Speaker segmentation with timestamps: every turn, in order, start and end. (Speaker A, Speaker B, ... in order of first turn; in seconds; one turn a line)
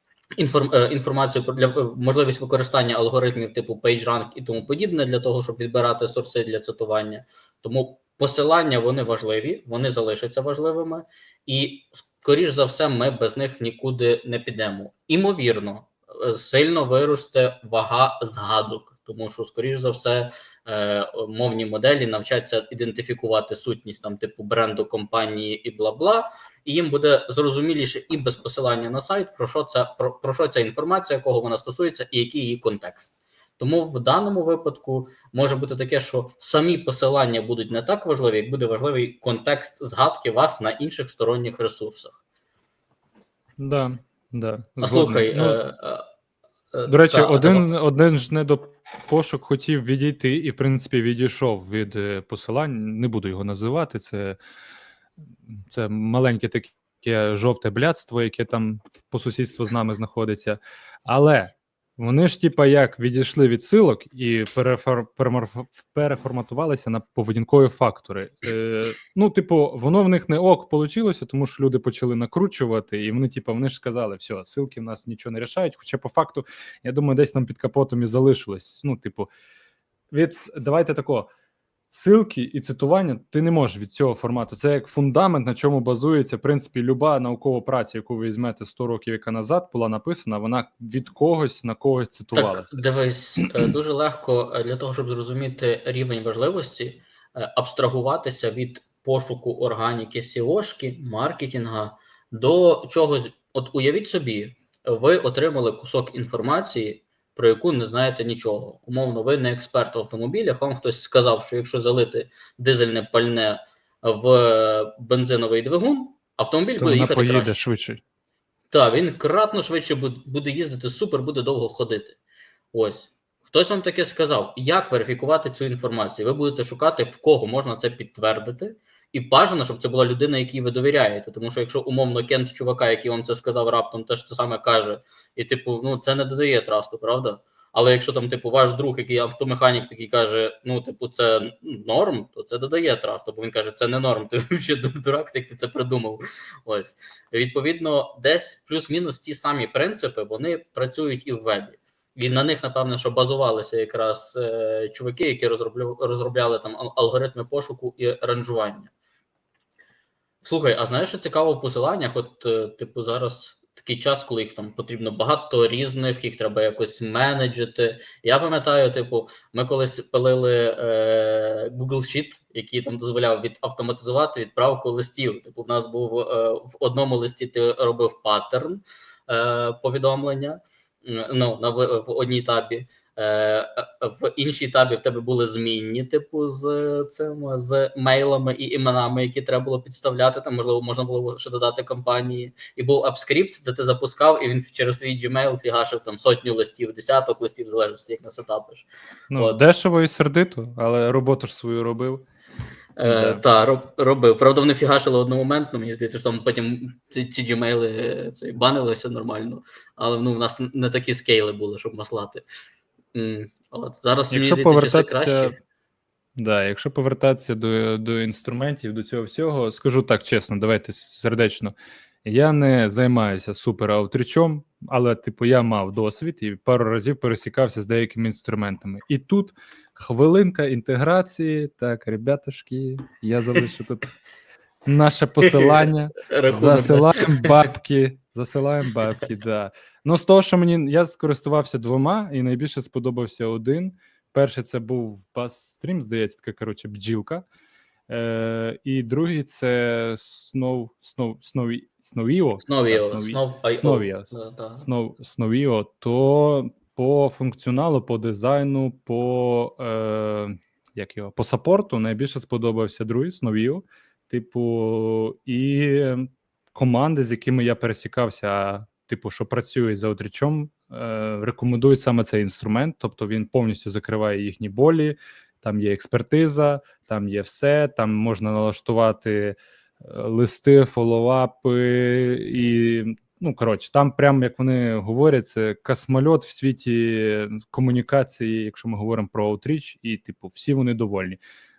Speaker A: 0.4-42.2
Speaker B: 43.6-45.6
Speaker A: 44.8-46.1
Speaker A: 46.7-47.7
Speaker B: 46.9-54.4
Speaker B: 55.5-79.3
Speaker B: 80.1-81.3
Speaker B: 81.9-92.8
Speaker A: 92.3-117.6
Speaker B: 116.8-118.0
Speaker A: 118.7-122.2
Speaker A: 122.7-158.9
Speaker A: 160.4-199.6
Speaker B: 199.3-202.3
Speaker A: 203.0-212.4
Speaker B: 203.0-203.4
Speaker A: 213.1-215.6
Speaker B: 214.3-215.6
Speaker B: 216.3-234.2
Speaker B: 234.8-247.4
Speaker A: 235.4-237.6
Speaker B: 248.1-291.4
Speaker A: 252.6-254.8